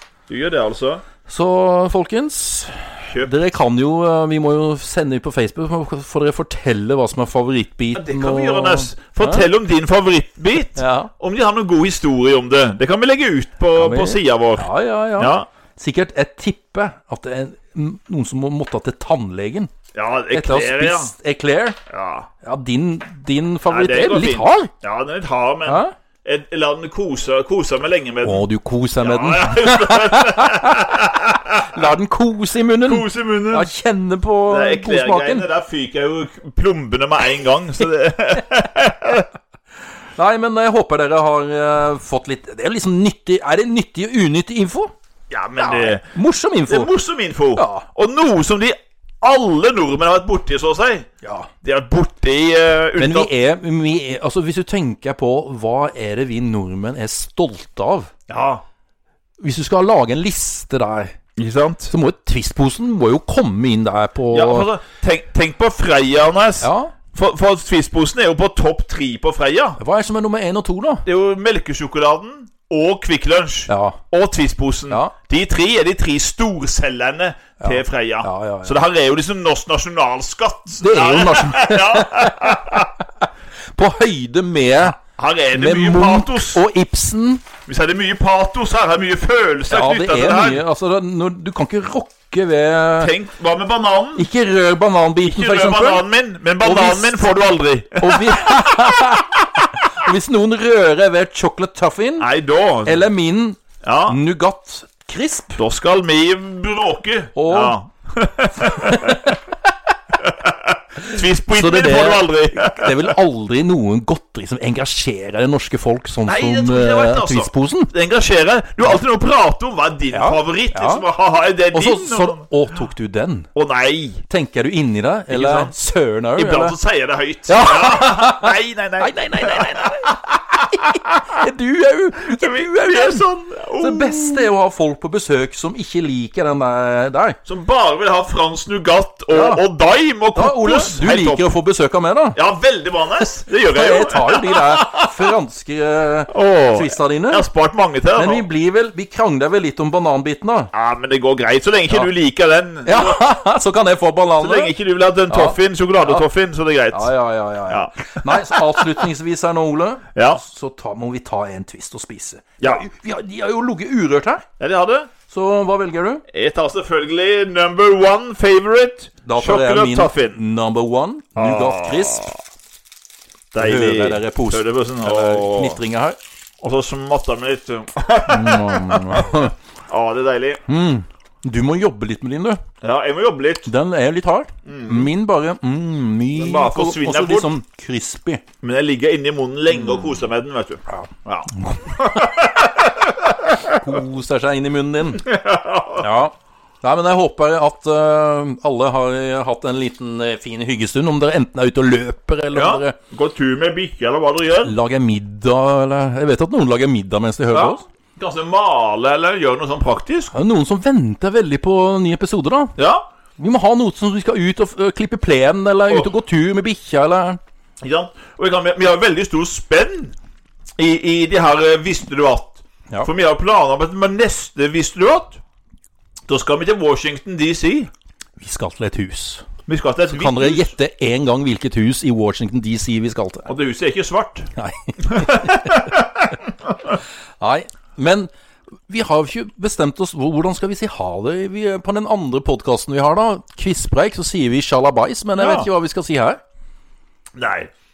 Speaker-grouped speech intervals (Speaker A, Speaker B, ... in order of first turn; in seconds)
Speaker A: 0.3-1.1, 3.0-3.3, 7.9-15.5, 19.9-21.1, 21.9-22.3, 23.7-28.5, 29.0-31.9, 32.8-33.7, 34.5-39.3, 45.3-46.1, 46.7-51.1, 51.6-53.3, 58.3-58.6, 61.4-61.9, 64.3-69.8, 71.0-82.9, 85.0-86.6, 87.7-90.6, 93.0-94.3, 95.2-98.6, 102.2-103.1, 103.8-104.2, 105.6-109.3, 110.2-113.2, 116.3-122.4, 123.5-124.2, 125.3-125.7, 126.4-131.2, 132.2-134.5, 137.4-141.5, 142.3-145.3, 146.3-148.4, 150.7-153.2, 154.4-157.1, 157.7-159.1, 160.2-160.4, 162.6-162.9, 164.6-165.1, 166.3-170.4, 171.4-172.4, 173.5-175.8, 176.6-180.6, 182.8-183.7, 184.7-185.1, 186.3-187.5, 188.6-193.9, 195.2-196.1, 202.5-204.8, 207.5-210.3, 212.8-213.1, 217.8-220.1, 220.8-225.4, 226.3-227.9, 229.7-230.7, 233.5-234.5, 235.0-237.0, 245.4-245.7, 247.4-247.7
Speaker B: 1.3-9.5, 10.8-11.1, 13.8-19.7, 20.3-21.8, 22.4-24.7, 25.7-25.9, 28.2-35.5, 40.2-44.9, 45.6-46.9, 47.5-47.9, 51.2-51.5, 53.0-58.1, 59.4-61.2, 61.9-64.7, 66.6-66.9, 69.8-71.0, 73.7-74.0, 74.9-75.1, 77.6-78.8, 80.8-85.0, 85.5-87.5, 89.7-93.1, 94.2-96.1, 96.6-97.3, 98.0-102.3, 102.8-105.6, 107.3-107.8, 108.6-109.4, 111.1-117.9, 120.1-121.0, 121.7-123.5, 124.3-126.8, 127.5-133.2, 133.8-137.4, 139.3-139.6, 140.3-142.4, 143.5-147.5, 148.2-150.7, 152.8-154.7, 155.3-156.2, 156.9-164.5, 165.3-166.2, 169.2-172.3, 173.6-176.2, 178.3-179.5, 180.7-182.6, 183.7-188.4, 190.9-192.2, 193.6-195.3, 196.0-203.0, 204.6-207.8, 210.3-212.7, 213.4-217.4, 228.4-229.5, 230.1-233.5, 234.6-236.0, 237.4-238.3, 238.9-246.4